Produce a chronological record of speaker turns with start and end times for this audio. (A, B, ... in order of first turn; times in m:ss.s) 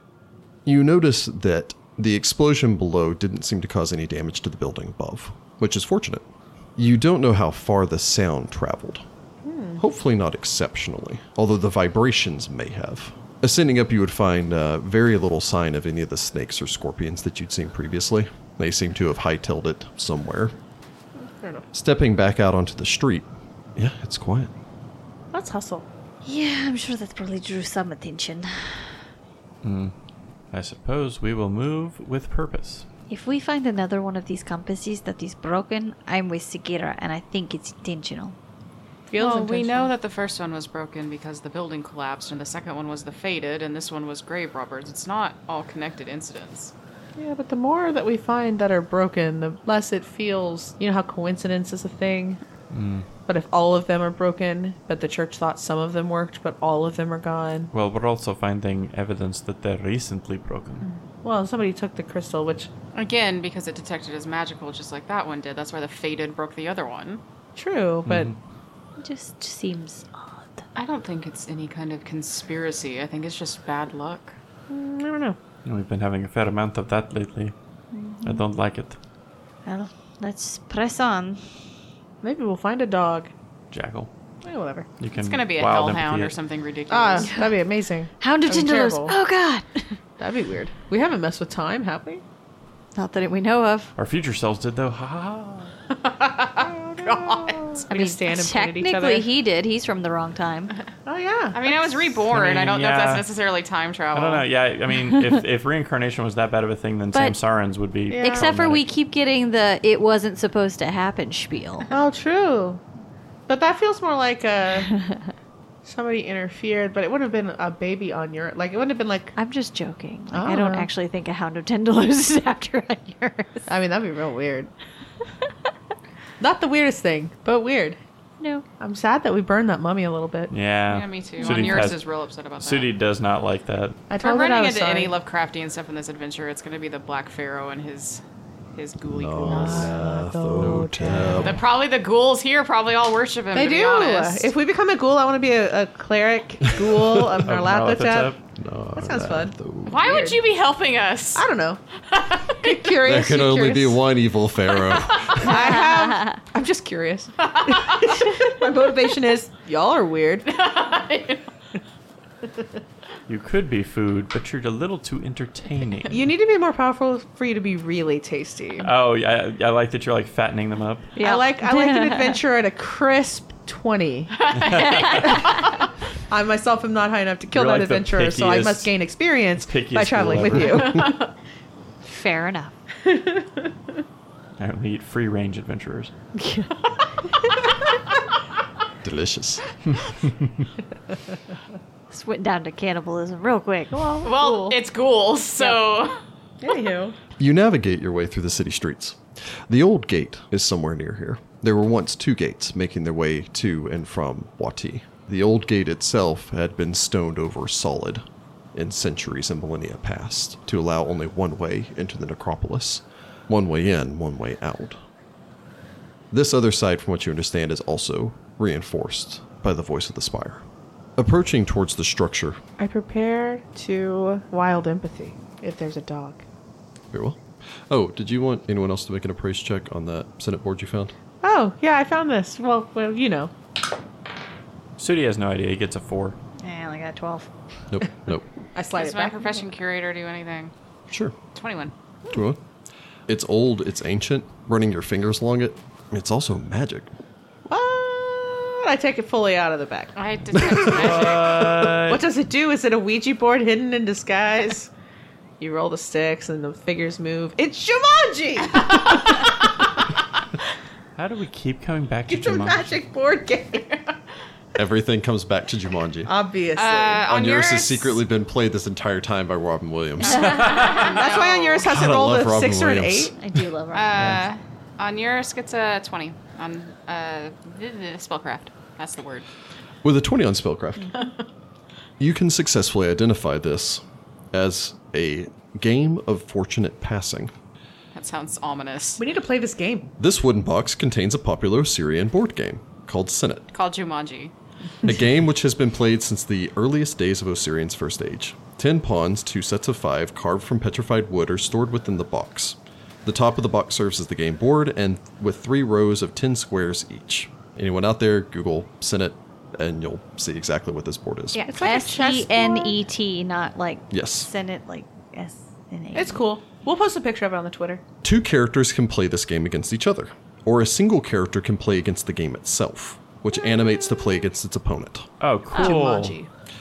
0:00.7-0:06.2 A
0:06.8-0:09.0 A
0:09.4-0:09.8 B
0:09.8-0:20.6 A
0:21.2-0:21.6 B
0:21.7-0:24.5 A
0:25.3-0:25.9 B
0:26.2-0:29.0 C
0:29.6-0:29.9 D
0:30.5-0:32.9 D
0:33.1-0:38.4 C
0:39.1-0:39.9 B
0:39.2-0:46.7 E
0:47.2-0:52.4 B
0:52.7-0:53.1 D
0:53.3-0:57.7 B
0:57.7-1:00.9 D
1:00.8-1:02.7 B
1:02.9-1:07.2 E
1:07.6-1:08.3 B
1:08.0-1:08.4 D
1:09.0-1:10.6 C
1:10.8-1:14.4 E
1:14.7-1:15.4 B
1:15.6-1:17.6 D
1:17.9-1:18.4 C
1:18.2-1:19.0 D
1:19.6-1:21.4 C
1:22.2-1:23.3 B
1:23.7-1:24.1 D
1:24.4-1:24.9 B
1:25.0-1:26.3 D
1:25.1-1:27.4 E
1:26.9-1:29.2 B
1:27.2-1:27.5 C
1:28.2-1:30.0 C
1:30.2-1:32.2 B
1:33.0-1:33.9 C
1:34.0-1:35.7 D
1:35.9-1:37.8 E
1:36.6-1:39.3 B
1:37.9-1:40.7 C
1:41.1-1:41.7 B
1:41.5-1:44.5 E
1:42.2-1:43.2 D
1:44.1-1:48.8 D
1:48.1-1:48.5 B
1:48.2-1:51.9 C
1:51.9-1:52.8 B
1:53.5-1:55.0 B
1:55.8-1:59.3 B
1:59.4-2:03.7 C
2:00.3-2:00.9 B
2:03.7-2:04.7 B
2:06.4-2:08.0 B
2:08.4-2:08.6 C
2:08.8-2:10.5 B
2:10.5-2:12.0 D
2:10.9-2:12.9 E
2:12.6-2:14.0 D
2:14.1-2:15.2 B
2:14.2-2:18.2 E
2:18.7-2:20.2 E
2:19.1-2:21.6 A
2:19.4-2:21.6 B
2:21.4-2:24.5 E
2:23.5-2:28.3 B
2:26.8-2:27.4 A
2:27.4-2:28.4 D
2:28.6-2:30.1 A
2:29.0-2:30.4 B
2:29.9-2:31.4 E
2:31.4-2:31.8 B
2:32.1-2:32.8 E
2:32.5-2:34.0 B
2:33.0-2:35.7 A
2:35.4-2:40.6 B
2:37.4-2:38.1 E
2:40.5-2:41.5 E
2:43.3-2:46.2 D
2:46.1-2:48.9 B
2:48.8-2:51.1 D
2:51.2-2:52.4 C
2:51.2-2:54.4 B
2:54.3-2:55.8 E
2:54.8-2:55.4 C
2:55.0-2:55.4 B
2:56.3-3:01.2 B
2:57.5-2:58.9 D
2:59.6-3:01.0 D
3:00.6-3:01.3 E
3:02.1-3:02.8 C
3:03.0-3:03.7 B
3:04.6-3:06.1 D
3:06.4-3:06.7 C
3:09.0-3:09.6 A
3:12.1-3:14.2 C
3:13.9-3:14.8 B
3:14.2-3:16.2 E
3:16.6-3:17.2 B
3:17.4-3:28.2 A
3:28.7-3:35.0 A
3:36.3-3:40.6 A
3:41.2-3:42.6 A
3:42.8-3:46.4 B
3:47.1-3:51.1 A
3:51.4-3:53.5 B
3:55.0-3:56.4 D
3:56.6-3:57.5 C
3:57.9-3:58.5 A
3:58.8-3:59.6 B
3:58.9-4:00.7 E
4:01.1-4:01.4 A
4:01.5-4:01.9 E
4:02.3-4:02.6 A
4:03.3-4:07.1 A
4:07.7-4:10.1 B
4:10.2-4:11.6 E
4:10.6-4:11.0 A
4:10.9-4:12.2 D
4:12.1-4:14.9 B
4:15.6-4:19.9 B
4:21.2-4:23.0 D
4:22.3-4:23.9 B
4:24.8-4:26.3 A
4:26.3-4:27.2 B
4:26.8-4:28.2 E
4:27.3-4:30.7 A
4:30.2-4:31.9 E
4:30.4-4:31.2 D
4:31.0-4:33.3 B
4:31.9-4:33.4 A
4:33.4-4:34.4 C
4:33.9-4:39.5 E
4:40.0-4:41.1 A
4:42.2-4:47.5 A
4:48.1-4:49.2 E
4:49.2-4:50.1 B
4:50.2-4:53.7 A
4:53.7-4:54.5 E
4:55.0-5:11.6 A
5:11.5-5:16.4 C
5:11.6-5:12.9 B
5:14.1-5:14.5 A
5:16.2-5:18.0 B
5:18.2-5:25.3 A
5:25.4-5:26.4 D
5:25.7-5:26.5 B